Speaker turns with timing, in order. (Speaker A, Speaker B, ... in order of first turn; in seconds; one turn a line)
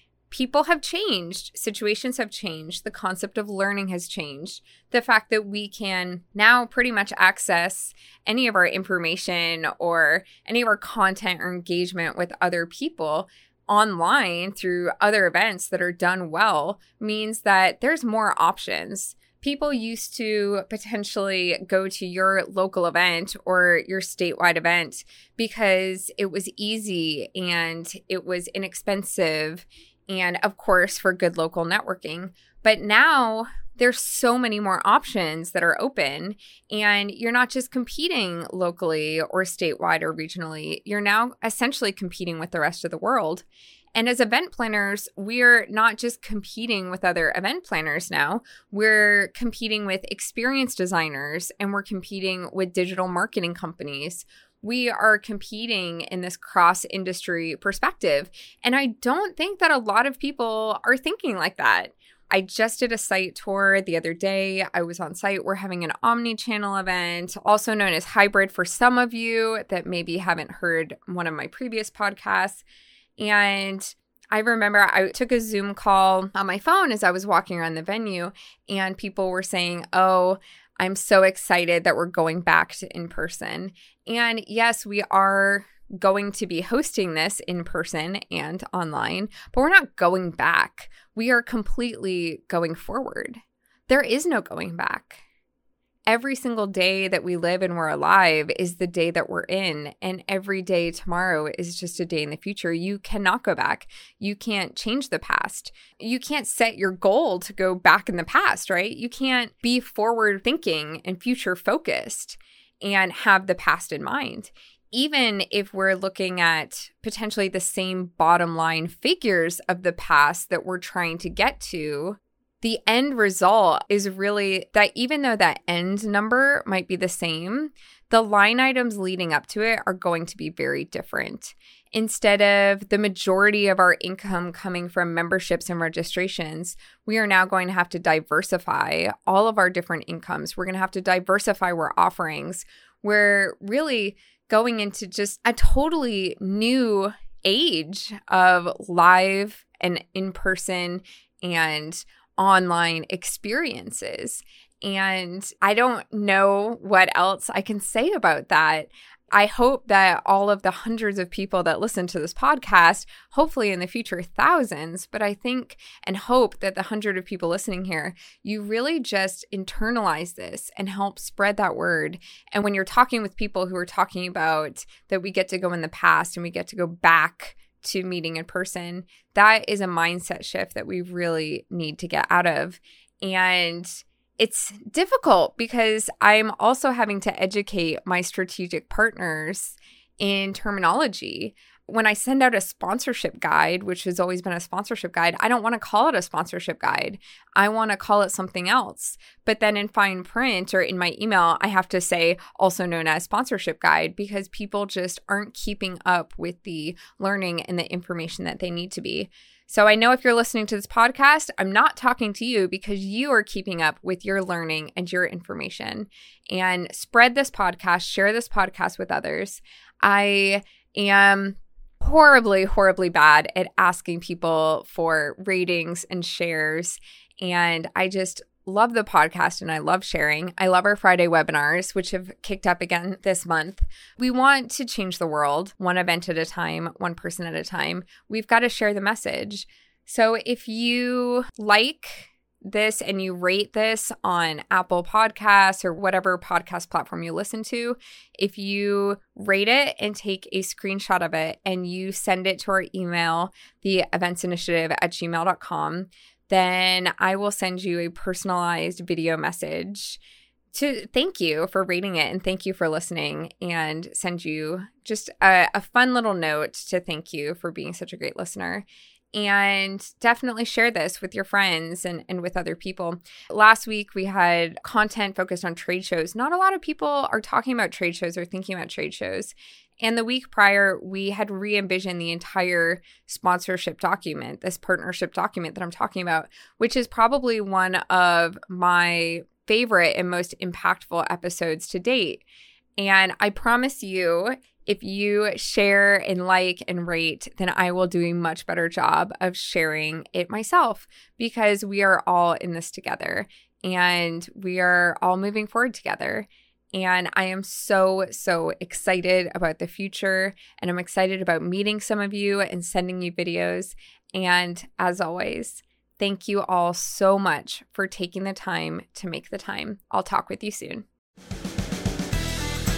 Speaker A: 0.3-72.6
Speaker A: 73.2-95.2
Speaker A: 96.1-260.2
Speaker A: 260.7-292.5
Speaker A: 293.0-321.1